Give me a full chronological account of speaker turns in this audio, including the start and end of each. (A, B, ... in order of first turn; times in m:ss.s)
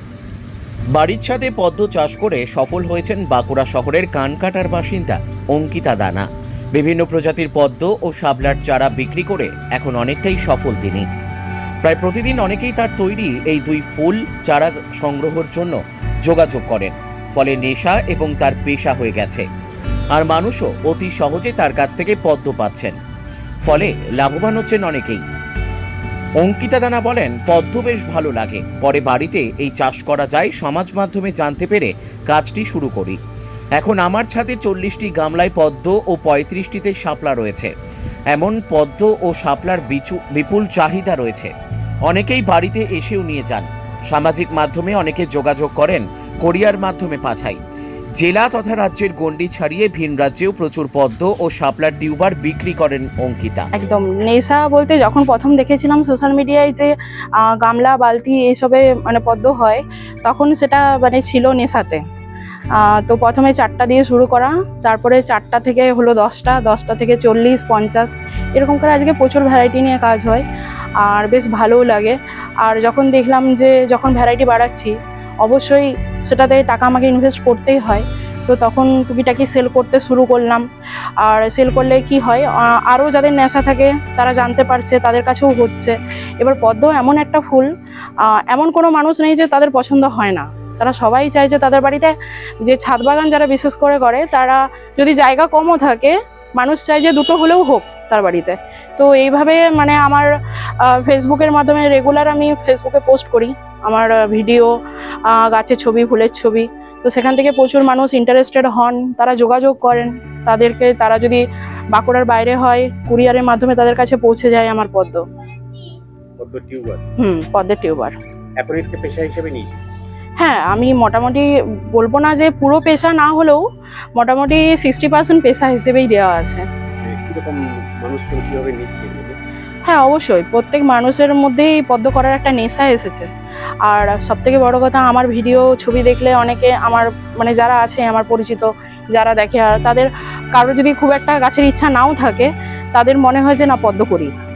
0:00.9-0:11.0 A
0:11.8-0:19.4 A
0:20.1-0:23.0 A
0:23.6-0:25.2 A
0:26.4-0:33.2 A
0:33.8-0:37.7 A
0:38.3-0:41.5 A
0:42.1-0:47.6 A
0:48.2-0:53.7 A
0:53.7-1:02.0 B
1:02.7-1:10.4 B
1:11.0-1:20.6 B
1:21.2-1:27.7 B
1:28.2-1:44.7 B
1:45.2-1:55.2 B
1:56.4-1:57.0 C
1:57.2-1:58.2 B
1:58.6-1:59.8 C
2:00.4-2:03.6 B
2:04.2-2:06.6 B
2:07.0-2:09.4 C
2:09.8-2:13.3 B
2:13.8-2:24.3 B